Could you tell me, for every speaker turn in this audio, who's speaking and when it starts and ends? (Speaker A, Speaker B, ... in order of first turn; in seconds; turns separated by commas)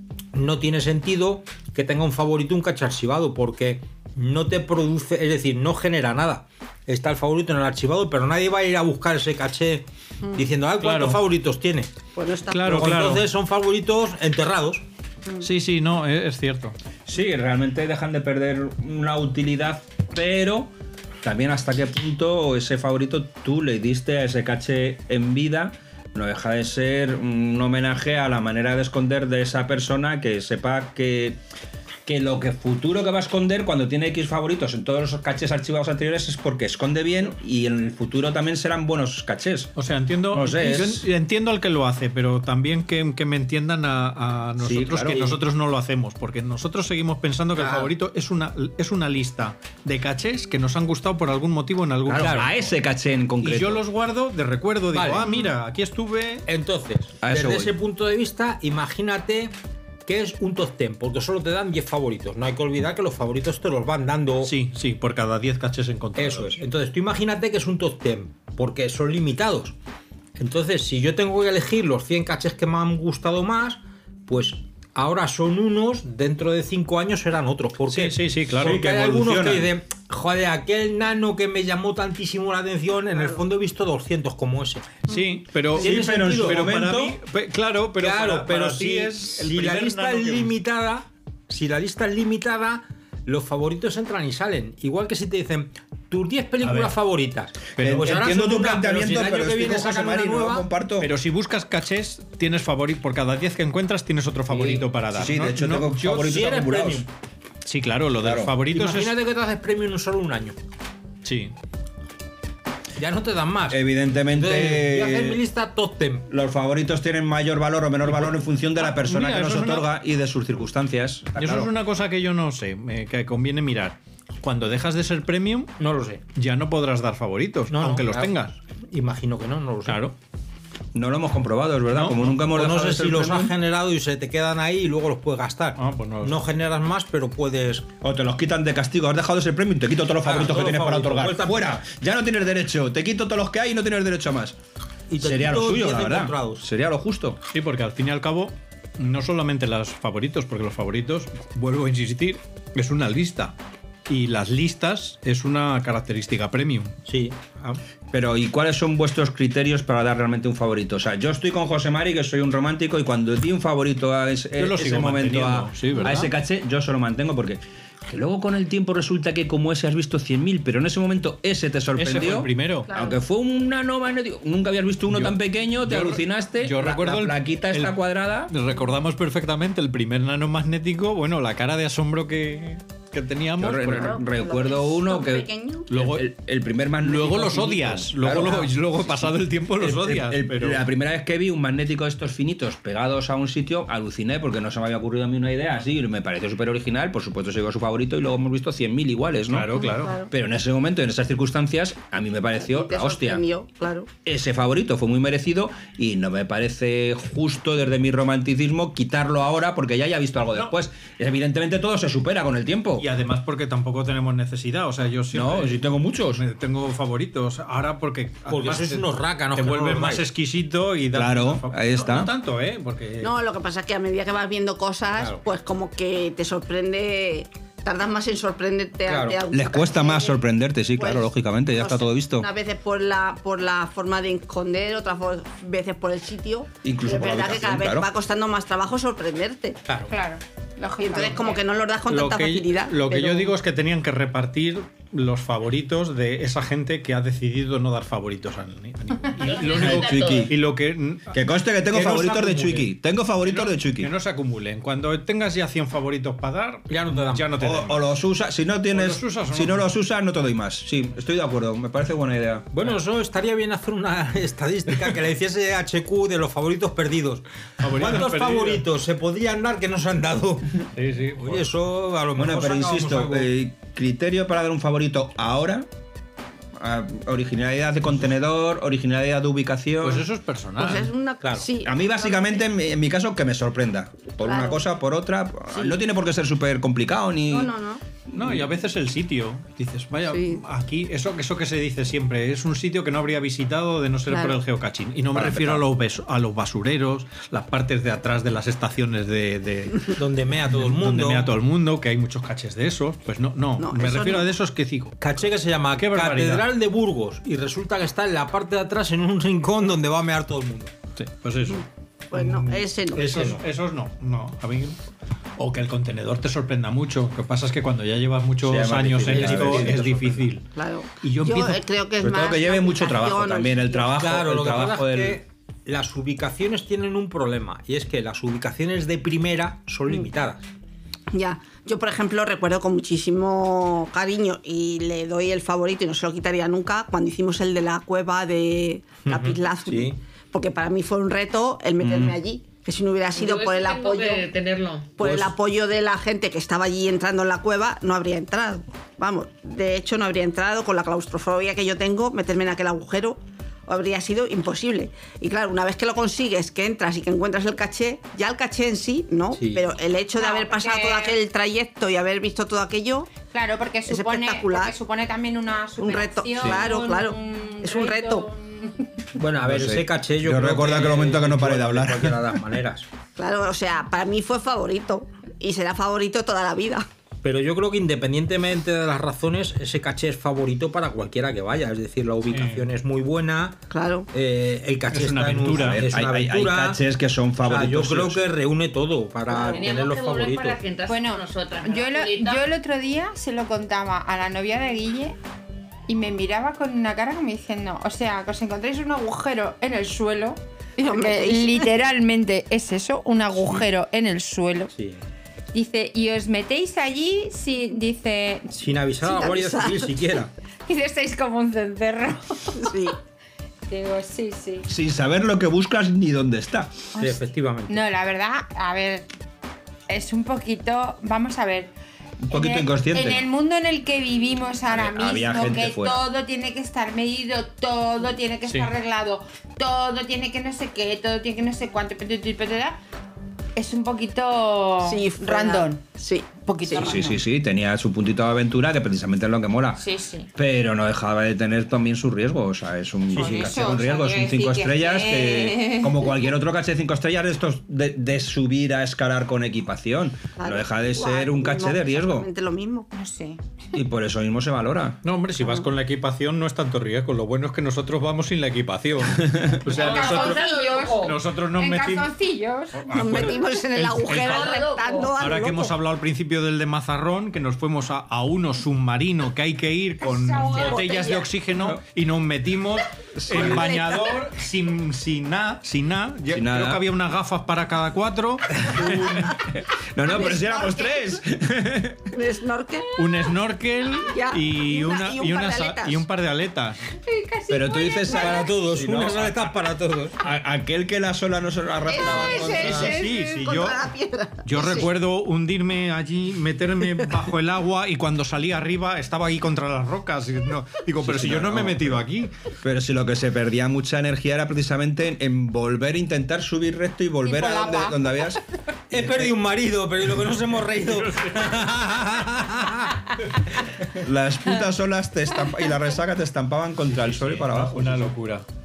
Speaker A: 0.3-11.9, Speaker B: 10.8-11.2, Speaker C: 12.2-12.7, Speaker B: 12.5-13.3, Speaker A: 12.6-14.8, Speaker B: 15.4-16.8, Speaker D: 17.1-20.7, Speaker D: 21.2-31.4, Speaker D: 32.1-39.7, Speaker B: 39.8-52.6, Speaker D: 40.3-41.1, Speaker D: 44.6-45.4, Speaker A: 47.6-47.9, Speaker D: 52.1-53.8, Speaker A: 52.1-52.5, Speaker B: 53.4-56.5, Speaker A: 54.9-55.3, Speaker A: 56.5-59.5, Speaker D: 57.2-57.7, Speaker A: 60.1-64.5, Speaker B: 64.4-66.6, Speaker A: 66.2-69.8, Speaker A: 70.4-85.0, Speaker B: 77.9-78.8, Speaker D: 78.6-79.7, Speaker B: 85.1-90.6, Speaker D: 85.7-87.2, Speaker A: 85.8-86.6, Speaker A: 88.0-100.7, Speaker B: 96.6-96.9, Speaker B: 97.8-98.2, Speaker D: 97.8-101.1, Speaker B: 101.0-106.3, Speaker A: 104.5-104.8, Speaker D: 105.1-107.1, Speaker A: 106.0-107.1, Speaker B: 107.6-109.1, Speaker D: 108.2-108.5, Speaker A: 108.7-110.6, Speaker B: 111.2-111.5, Speaker A: 113.0-116.2, Speaker D: 113.7-115.4, Speaker D: 116.3-121.7, Speaker B: 118.8-119.9, Speaker B: 121.4-125.8, Speaker A: 125.8-126.2, Speaker B: 126.3-128.6, Speaker A: 127.7-128.3, Speaker A: 128.9-130.1, Speaker B: 129.9-130.1, Speaker D: 130.9-133.5, Speaker B: 131.9-132.2, Speaker A: 132.4-137.9, Speaker B: 135.8-136.4, Speaker D: 138.0-144.6, Speaker A: 140.2-141.8, Speaker A: 145.1-146.6, Speaker D: 145.2-147.4, Speaker B: 147.5-153.6, Speaker B: 154.1-156.9, Speaker A: 157.1-157.8, Speaker D: 158.1-178.5, Speaker B: 164.6-166.3, Speaker B: 172.0-172.9, Speaker C: 172.9-173.2, Speaker B: 175.1-177.9, Speaker B: 178.5-184.2, Speaker D: 183.6-203.4, Speaker C: 183.9-185.9, Speaker B: 185.9-186.3, Speaker B: 187.0-190.8, Speaker B: 199.5-200.2, Speaker C: 199.7-200.3, Speaker C: 202.6-204.1, Speaker D: 204.2-213.1, Speaker B: 213.0-223.3, Speaker D: 215.3-216.4, Speaker A: 218.5-220.2, Speaker D: 221.1-222.3, Speaker C: 223.2-230.4, Speaker A: 225.2-225.4, Speaker A: 229.1-229.4, Speaker D: 229.5-232.5, Speaker C: 231.0-239.8, Speaker D: 236.8-238.1, Speaker A: 239.9-240.1, Speaker E: 240.1-241.6, Speaker C: 241.0-243.5, Speaker B: 242.1-251.3, Speaker F: 249.4-250.5, Speaker D: 249.6-250.5, Speaker D: 251.3-254.1, Speaker A: 251.9-252.9, Speaker B: 253.5-258.1, Speaker A: 256.9-257.5, Speaker D: 257.6-262.7, Speaker B: 258.9-259.8, Speaker A: 262.7-270.9, Speaker B: 267.8-268.8, Speaker B: 270.9-271.7, Speaker A: 271.4-273.5, Speaker D: 272.4-275.9, Speaker D: 276.8-280.3, Speaker B: 280.0-281.1, Speaker C: 280.8-282.6, Speaker A: 281.4-281.7, Speaker D: 281.8-287.7, Speaker C: 284.4-284.8, Speaker C: 285.7-286.0, Speaker C: 287.5-288.0, Speaker D: 288.3-288.7, Speaker B: 288.3-305.2, Speaker C: 290.3-290.6, Speaker C: 294.3-294.6, Speaker D: 295.3-295.8, Speaker A: 300.1-301.5, Speaker C: 303.8-304.5, Speaker A: 305.2-311.0, Speaker B: 305.9-306.7, Speaker B: 311.2-315.0, Speaker C: 311.7-313.6, Speaker A: 313.2-313.6, Speaker B: 315.6-320.7, Speaker D: 318.6-320.5, Speaker A: 319.3-320.4, Speaker C: 320.7-324.1, Speaker B: 321.2-321.8, Speaker D: 322.2-325.4, Speaker A: 324.2-330.7, Speaker C: 331.3-344.5, Speaker A: 339.2-340.2, Speaker D: 342.0-342.4, Speaker F: 343.4-345.1, Speaker C: 345.2-363.3, Speaker A: 345.2-345.5, Speaker A: 359.6-359.9, Speaker E: 360.4-361.4, Speaker E: 363.5-369.1, Speaker C: 364.1-365.0, Speaker C: 366.0-368.5, Speaker A: 369.4-373.1, Speaker D: 369.6-372.5, Speaker C: 373.4-377.1, Speaker A: 377.4-387.0, Speaker B: 382.5-382.9, Speaker C: 383.9-384.3, Speaker B: 385.1-386.0, Speaker D: 385.7-388.5, Speaker A: 387.6-390.8, Speaker C: 389.5-389.8, Speaker F: 389.7-392.6, Speaker E: 391.1-395.4, Speaker E: 396.1-404.9, Speaker C: 401.0-401.9, Speaker A: 404.9-405.2, Speaker E: 405.7-408.8, Speaker A: 408.7-410.5, Speaker C: 409.2-410.2, Speaker E: 410.9-412.9, Speaker C: 412.8-413.2, Speaker E: 413.9-414.9, Speaker D: 414.9-417.0, Speaker E: 417.2-419.2, Speaker A: 417.2-418.0, Speaker E: 420.1-421.9, Speaker D: 422.4-423.4, Speaker E: 422.5-433.0, Speaker D: 424.9-426.2, Speaker E: 433.8-436.0, Speaker C: 435.0-437.2, Speaker E: 436.6-437.4, Speaker D: 437.0-440.0, Speaker E: 440.0-440.5, Speaker D: 440.6-452.5, Speaker A: 443.3-443.8, Speaker E: 443.3-446.3, Speaker C: 450.6-453.1, Speaker E: 453.1-453.6, Speaker D: 453.9-455.2, Speaker B: 455.2-460.6, Speaker C: 455.6-455.9, Speaker D: 459.4-459.8, Speaker F: 459.9-461.4, Speaker E: 459.9-463.0, Speaker B: 461.2-462.3, Speaker B: 463.0-464.8, Speaker C: 463.1-466.0, Speaker F: 464.3-465.4, Speaker B: 465.4-479.3, Speaker E: 470.2-471.3, Speaker C: 470.8-471.4, Speaker D: 471.7-472.0, Speaker D: 473.4-474.0, Speaker C: 473.5-474.4, Speaker D: 476.5-477.0, Speaker D: 478.9-482.3, Speaker E: 480.2-481.4, Speaker C: 482.3-483.1, Speaker B: 483.2-487.0, Speaker C: 484.3-486.2, Speaker E: 487.2-488.6, Speaker D: 487.7-489.8, Speaker A: 488.3-490.4, Speaker D: 490.4-493.1, Speaker C: 492.1-495.1, Speaker E: 492.1-493.5, Speaker B: 492.6-494.1, Speaker B: 494.6-502.5, Speaker D: 501.2-502.2, Speaker D: 502.8-508.6, Speaker E: 507.4-508.2, Speaker A: 509.1-513.2, Speaker D: 509.1-509.6, Speaker B: 511.0-511.8, Speaker D: 514.1-518.4, Speaker B: 517.1-518.6